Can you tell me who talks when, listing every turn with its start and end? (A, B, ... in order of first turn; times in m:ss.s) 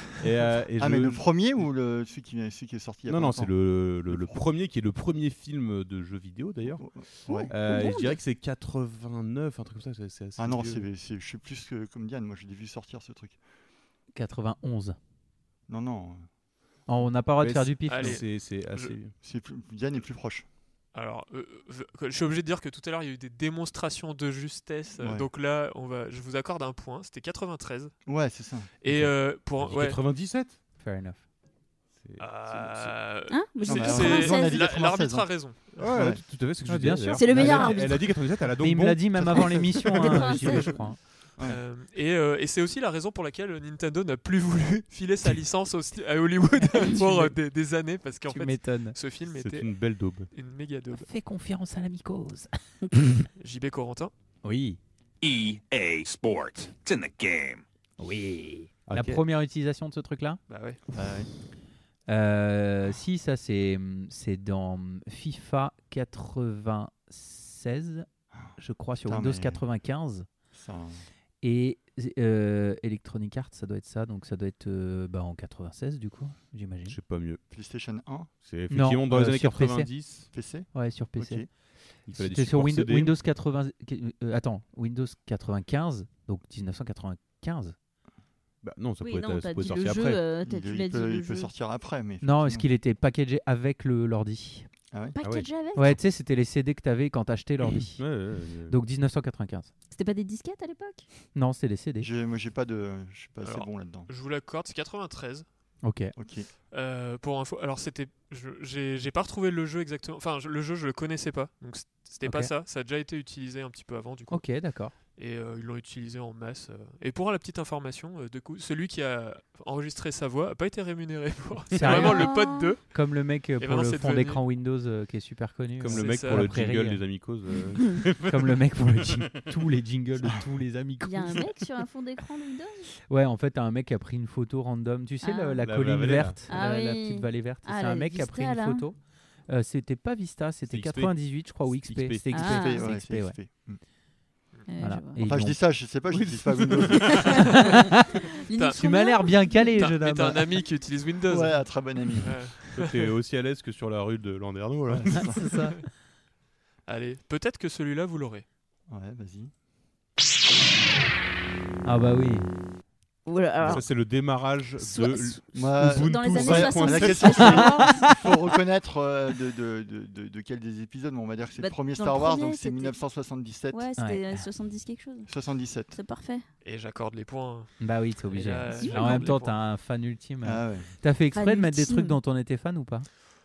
0:00.2-0:01.6 A
0:00.8-0:04.4 B
0:03.0-0:10.9 A
0:06.7-0:07.5 B
0:07.3-0:08.2 C
0:10.4-0:13.4 B
0:14.1-0:15.0 D
0:15.7-0:16.3 B
0:16.9-0:18.2 D
0:17.4-0:19.1 A
0:17.9-0:19.0 E
0:19.2-0:20.4 B
0:20.9-0:28.0 E
0:25.0-0:25.3 B
0:28.0-0:28.7 B
0:28.8-0:30.0 E
0:28.9-0:30.6 A
0:30.8-0:31.2 D
0:32.0-0:33.1 A
0:32.2-0:35.9 E
0:33.3-0:34.7 C
0:33.6-0:36.2 B
0:35.8-0:39.8 A
0:36.6-0:41.0 D
0:37.1-0:38.1 C
0:39.2-0:39.9 B
0:40.0-0:40.9 C
0:41.4-0:51.1 E
0:46.8-0:47.4 D
0:48.3-0:49.0 D
0:49.3-0:50.3 A
0:50.9-0:53.3 D
0:53.4-0:54.1 E
0:54.4-0:54.8 D
0:55.2-0:57.5 F
0:58.0-1:00.4 D
0:58.9-0:59.2 A
1:00.5-1:00.8 E
1:00.9-1:01.3 B
1:02.1-1:10.3 D
1:09.0-1:09.6 B
1:10.5-1:11.1 B
1:11.4-1:17.0 D
1:16.9-1:17.4 A
1:17.5-1:18.3 B
1:18.4-1:20.3 A
1:18.7-1:19.9 D
1:20.3-1:21.5 B
1:20.7-1:27.8 D
1:22.0-1:23.2 A
1:28.6-1:30.2 A
1:29.0-1:31.5 C
1:30.4-1:32.7 B
1:32.2-1:34.7 D
1:34.9-1:35.2 B
1:35.1-1:36.0 C
1:35.2-1:35.5 A
1:35.7-1:39.7 D
1:38.0-1:38.8 A
1:39.9-1:41.0 C
1:41.3-1:42.1 D
1:42.0-1:44.1 B
1:43.4-1:45.4 E
1:45.8-1:46.1 D
1:46.1-1:46.5 B
1:46.7-2:04.4 E
1:52.2-1:52.5 D
1:54.3-1:54.9 D
2:01.8-2:07.1 D
2:01.9-2:02.7 C
2:05.8-2:09.3 A
2:05.9-2:06.5 E
2:08.3-2:11.5 D
2:11.0-2:12.9 C
2:13.1-2:23.4 D
2:15.2-2:15.6 C
2:15.6-2:16.4 A
2:16.5-2:18.9 C
2:20.7-2:22.3 A
2:22.3-2:23.0 C
2:22.4-2:23.8 B
2:24.7-2:25.2 C
2:24.8-2:25.7 D
2:25.2-2:27.3 B
2:26.1-2:27.3 A
2:27.0-2:29.7 C
2:27.5-2:28.0 D
2:28.5-2:28.8 E
2:28.8-2:30.6 D
2:29.8-2:33.1 E
2:31.3-2:32.3 B
2:32.7-2:35.3 A
2:34.9-2:35.6 B
2:35.2-2:35.8 D
2:36.9-2:38.4 E
2:38.9-2:39.5 B
2:41.8-2:42.5 D
2:43.2-2:44.1 C
2:43.6-2:47.8 A
2:44.8-2:48.2 C
2:45.5-2:53.9 B
2:47.4-2:48.0 D
2:51.6-2:53.0 C
2:53.7-2:55.3 C
2:54.0-2:54.5 D
2:55.3-2:56.0 B
2:55.9-2:56.4 C
2:56.6-2:59.6 E
2:57.8-3:03.1 D
2:58.7-2:59.4 C
3:00.4-3:00.9 B
3:01.3-3:02.2 C